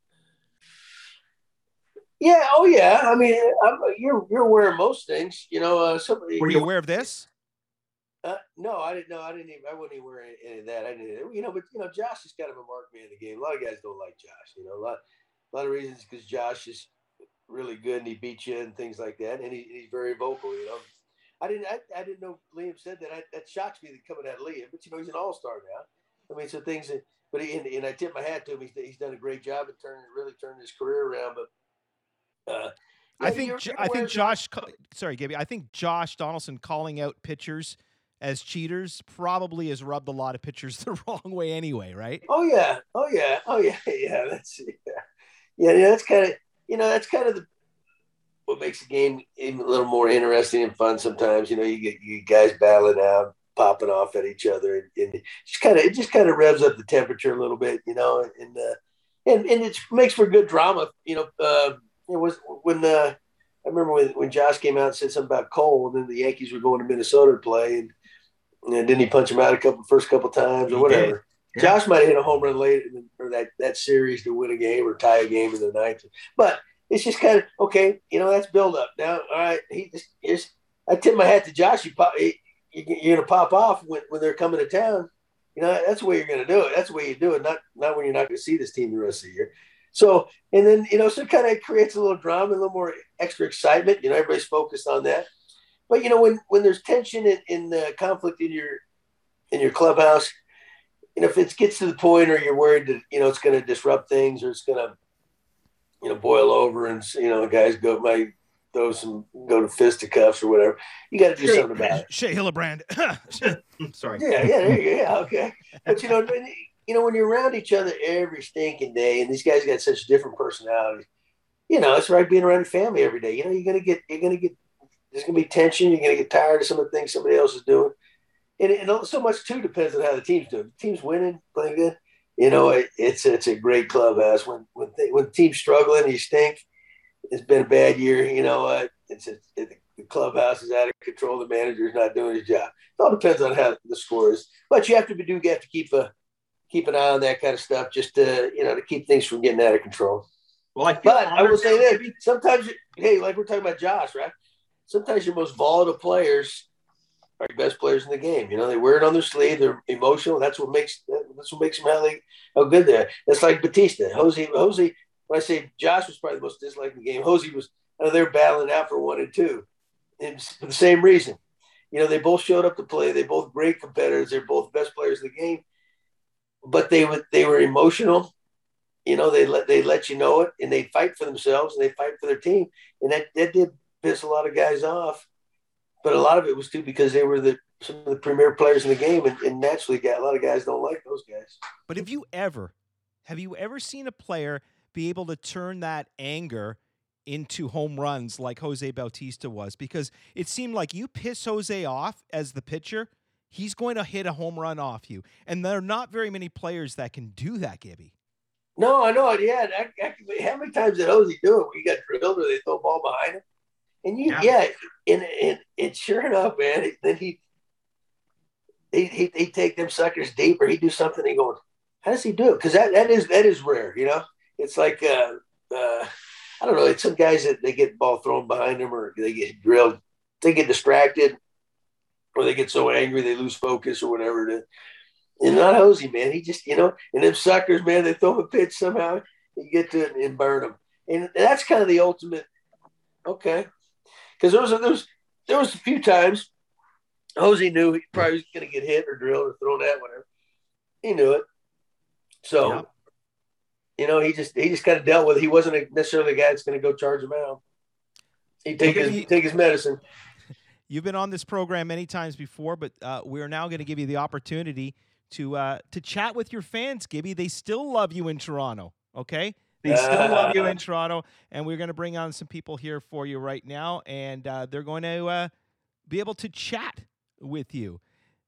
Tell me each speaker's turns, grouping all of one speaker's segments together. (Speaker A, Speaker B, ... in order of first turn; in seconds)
Speaker A: 2.2-6.7, 8.2-15.0, 15.5-16.9, 17.5-20.8, 21.4-31.5, 32.5-34.4, 42.3-44.8, 45.6-47.5, 48.5-67.9, 68.7-95.3, 95.9-98.8, 99.5-100.3, 101.2-104.9, 106.0-112.0, 114.2-121.0, 121.7-124.6, 125.1-127.9, 128.6-136.6, 137.3-146.1, 146.7-150.2, 151.0-154.3, 154.9-156.7, 157.4-169.6, 170.2-171.4, 171.9-175.6, 176.6-178.3, 179.1-185.3, 186.0-191.6, 208.8-213.4, 214.0-217.4, 218.9-226.1, 226.6-231.4, 232.3-234.6, 235.4-242.4, 243.2-243.7, 244.4-246.5, 247.4-250.2, 251.0-251.4, 252.4-252.8, 254.0-257.6, 258.6-260.0, 269.9-270.8
Speaker B: 6.4-7.3, 33.2-42.2, 70.7-71.7, 111.4-114.2, 150.7-152.1, 191.9-192.7, 193.2-208.1, 258.8-259.3, 260.9-275.5, 276.1-278.0